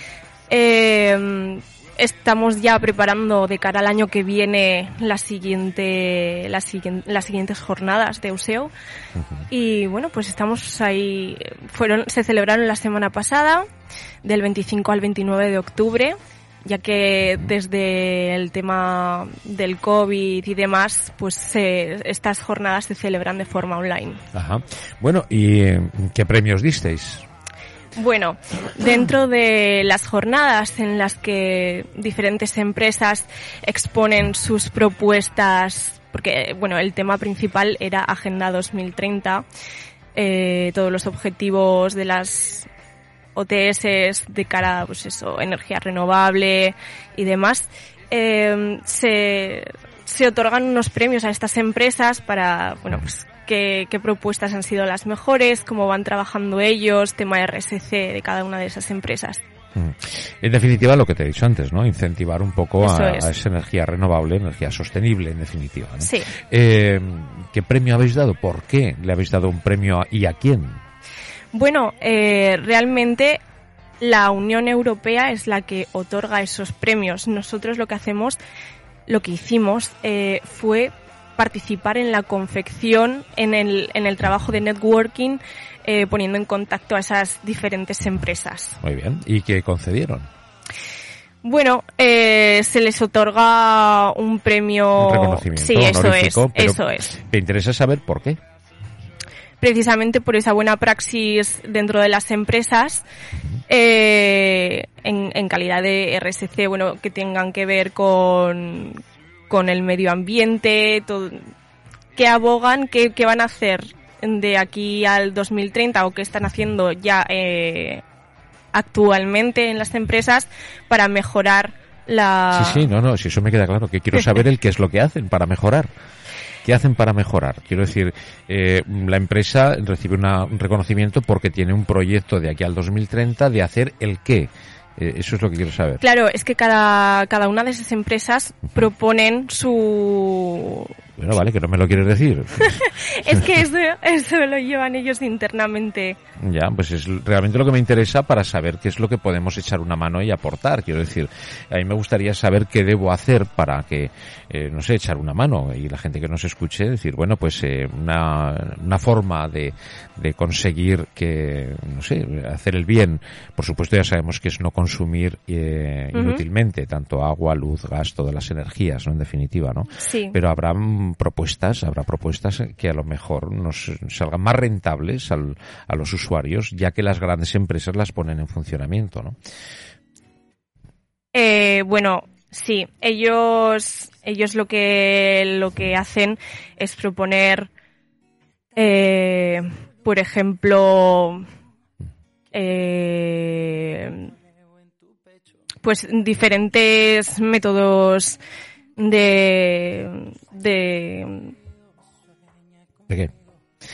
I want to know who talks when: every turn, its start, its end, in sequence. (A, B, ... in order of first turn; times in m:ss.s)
0:00.5-0:08.7 A
0:09.5-0:13.6 A
0:14.2-0:24.2 A
0:24.3-0:27.3 B
0:28.0-0:39.4 A
0:40.2-0:42.7 A
0:43.4-0:59.4 A
0:59.8-1:10.8 B
1:02.8-1:03.3 A
1:06.0-1:06.3 A
1:11.5-1:13.4 A
1:14.0-1:18.4 A
1:19.1-1:28.8 A
1:28.8-1:30.3 B
1:31.4-1:37.2 A
1:35.0-1:38.4 B
1:39.6-1:43.0 A
1:43.7-1:51.5 A
1:52.2-1:58.0 A
1:58.7-2:02.9 A
2:02.5-2:05.9 B
2:06.6-2:16.0 B
2:16.0-2:20.9 A
2:21.2-2:22.8 B
2:22.6-2:26.2 A
2:26.4-2:59.4 B
2:46.1-2:46.4 A
2:50.0-2:50.4 A
3:01.3-3:07.7 A
3:08.8-3:11.4 A
3:12.5-3:14.3 A
3:15.8-3:18.4 A
3:19.0-3:21.5 A